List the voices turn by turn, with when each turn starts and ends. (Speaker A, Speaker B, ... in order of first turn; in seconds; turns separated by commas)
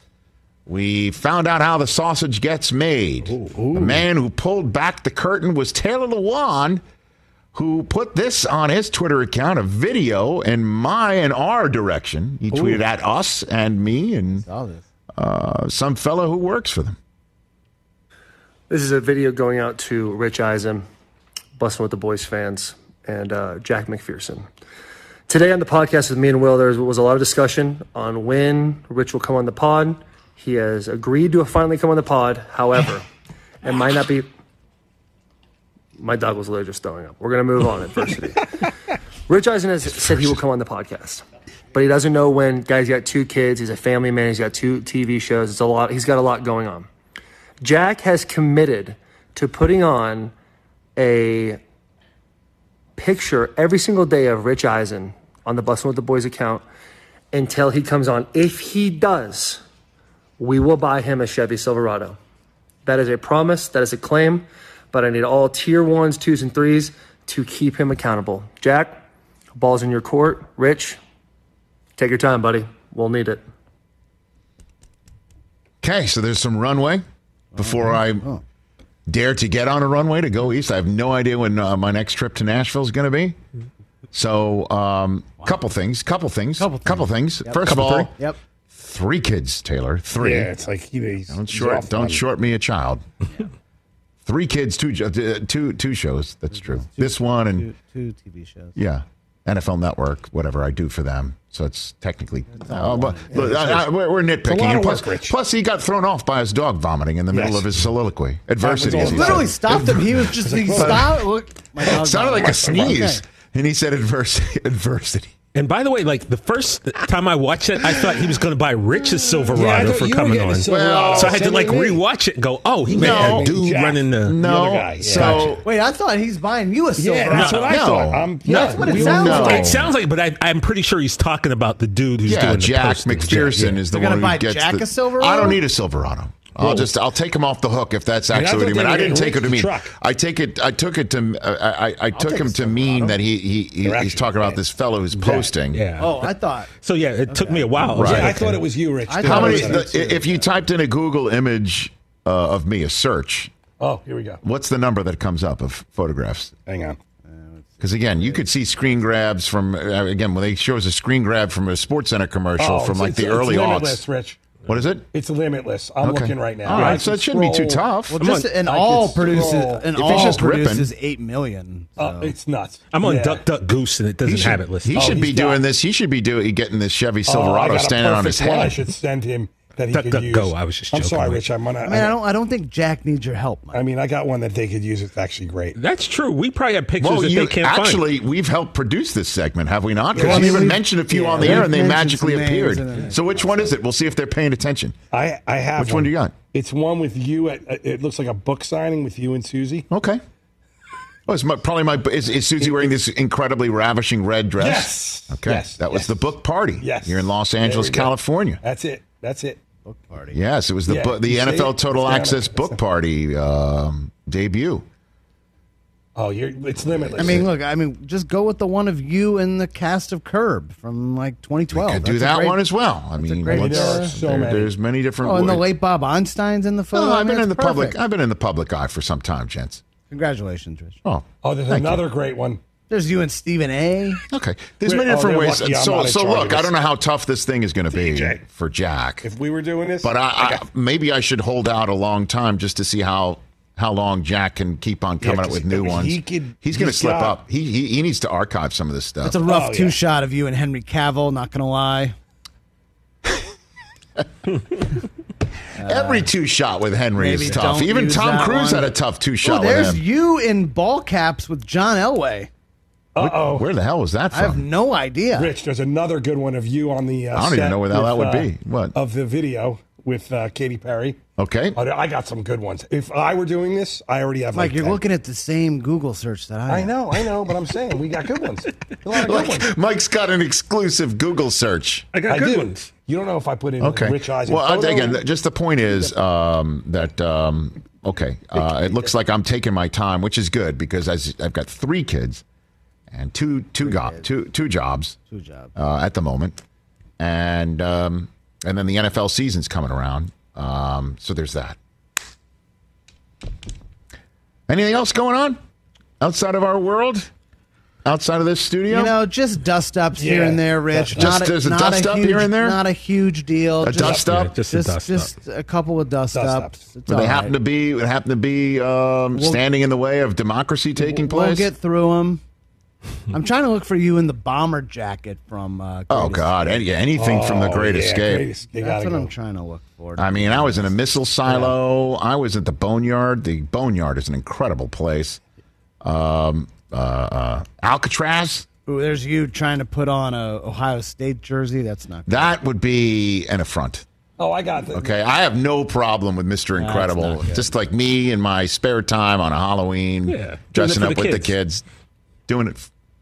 Speaker A: 0.7-6.8, Speaker B: 3.4-4.0, Speaker A: 7.5-14.4, Speaker B: 12.5-12.8, Speaker C: 14.3-14.8, Speaker A: 15.2-17.0, Speaker D: 18.7-20.9, Speaker D: 21.6-24.5, Speaker D: 25.3-33.0, Speaker D: 33.6-34.3, Speaker D: 36.0-38.6, Speaker D: 39.3-46.9, Speaker A: 40.0-40.4, Speaker D: 47.6-50.3, Speaker D: 51.0-51.6, Speaker D: 53.0-56.6, Speaker D: 57.3-59.6, Speaker D: 60.4-62.2, Speaker D: 62.9-69.0, Speaker D: 69.6-71.0, Speaker D: 72.0-73.4, Speaker A: 75.8-77.0, Speaker C: 77.5-78.4, Speaker A: 77.6-78.3, Speaker A: 79.1-83.4, Speaker A: 84.1-88.1, Speaker C: 86.6-88.4, Speaker E: 87.6-88.1, Speaker A: 88.7-90.5, Speaker B: 90.2-92.2, Speaker A: 91.3-93.0, Speaker A: 94.2-97.7, Speaker C: 96.5-98.8, Speaker A: 98.8-111.2, Speaker C: 102.5-103.6, Speaker B: 103.3-103.8, Speaker B: 104.5-105.4, Speaker B: 107.3-107.7, Speaker B: 108.6-111.2, Speaker C: 108.9-113.2, Speaker A: 111.8-115.3, Speaker B: 112.2-113.0, Speaker E: 115.5-124.4, Speaker B: 119.0-122.0, Speaker A: 120.7-121.7, Speaker A: 122.9-123.6, Speaker B: 122.9-125.6, Speaker A: 124.2-125.7, Speaker C: 125.1-127.9, Speaker B: 127.0-129.8, Speaker E: 127.3-127.8, Speaker A: 127.7-129.9, Speaker C: 128.5-129.7, Speaker E: 128.9-133.8, Speaker A: 132.3-145.8, Speaker C: 133.7-135.6, Speaker B: 136.6-136.9, Speaker B: 138.3-139.9, Speaker C: 142.1-143.2, Speaker B: 143.8-144.6, Speaker B: 145.2-145.5, Speaker E: 145.7-148.7, Speaker C: 146.0-146.7, Speaker C: 147.3-147.9, Speaker A: 147.9-148.4, Speaker B: 148.0-150.2, Speaker C: 149.1-150.4, Speaker A: 149.2-153.5, Speaker B: 153.8-154.4, Speaker A: 154.4-156.5, Speaker B: 156.7-157.0, Speaker C: 157.2-158.9, Speaker A: 157.8-164.0, Speaker B: 162.6-164.5, Speaker A: 164.7-165.1, Speaker B: 165.1-167.9, Speaker A: 166.0-168.2, Speaker E: 166.7-167.0, Speaker C: 168.1-172.4, Speaker E: 168.2-168.5, Speaker B: 168.6-170.4, Speaker A: 169.9-170.9, Speaker B: 172.0-173.5, Speaker E: 172.9-175.2, Speaker A: 174.2-178.8, Speaker B: 174.9-175.7, Speaker B: 177.3-182.1, Speaker E: 179.9-181.4, Speaker C: 181.8-183.8, Speaker B: 183.7-185.8, Speaker E: 185.8-188.1, Speaker A: 187.0-195.0, Speaker B: 190.2-190.8, Speaker C: 190.2-193.8, Speaker B: 191.4-191.7, Speaker B: 195.1-199.9, Speaker A: 195.8-196.3, Speaker A: 199.9-200.2, Speaker A: 201.3-208.6, Speaker B: 202.6-203.0, Speaker B: 204.6-209.6, Speaker C: 209.8-210.4, Speaker A: 210.3-214.9, Speaker B: 210.9-212.8, Speaker B: 216.2-217.5, Speaker A: 216.9-217.5, Speaker C: 217.2-224.2, Speaker A: 221.7-225.7, Speaker B: 223.5-224.7, Speaker C: 225.2-228.0, Speaker A: 226.9-229.8, Speaker C: 230.1-231.0, Speaker A: 231.0-232.1, Speaker B: 231.4-232.6, Speaker C: 232.9-234.2, Speaker A: 234.3-239.3, Speaker B: 234.8-236.8, Speaker B: 237.9-238.4, Speaker B: 239.2-240.6, Speaker A: 240.0-249.5, Speaker B: 245.2-247.4, Speaker C: 249.2-252.2, Speaker B: 249.4-250.0, Speaker C: 255.8-256.3, Speaker A: 255.8-260.0, Speaker C: 257.2-262.5, Speaker B: 263.1-263.7, Speaker A: 263.2-264.7, Speaker C: 264.3-265.5, Speaker B: 265.3-271.2, Speaker A: 267.3-269.0, Speaker A: 271.4-271.8, Speaker B: 271.8-275.0, Speaker C: 274.5-277.2, Speaker B: 276.7-279.7, Speaker A: 279.1-282.1, Speaker E: 282.1-282.9, Speaker B: 282.3-285.2, Speaker A: 283.8-292.4, Speaker A: 293.1-295.2, Speaker C: 293.8-294.3, Speaker C: 295.3-295.7, Speaker A: 295.8-296.6, Speaker A: 297.2-301.8, Speaker A: 304.7-305.6, Speaker A: 306.2-307.3, Speaker A: 308.1-309.2, Speaker C: 308.9-317.6, Speaker B: 310.2-311.4, Speaker A: 311.2-312.8, Speaker A: 313.8-314.6, Speaker E: 314.0-315.3, Speaker B: 316.3-316.9, Speaker A: 317.1-321.7, Speaker C: 319.3-319.6, Speaker C: 321.0-322.4, Speaker C: 323.3-326.8, Speaker A: 326.1-328.5, Speaker B: 327.1-329.3, Speaker C: 328.7-331.8, Speaker A: 330.2-335.4, Speaker A: 336.0-338.7, Speaker C: 338.9-342.6, Speaker A: 342.3-344.1, Speaker B: 344.4-345.2, Speaker A: 344.9-351.8, Speaker C: 346.8-347.7, Speaker E: 350.3-351.5, Speaker A: 352.5-352.9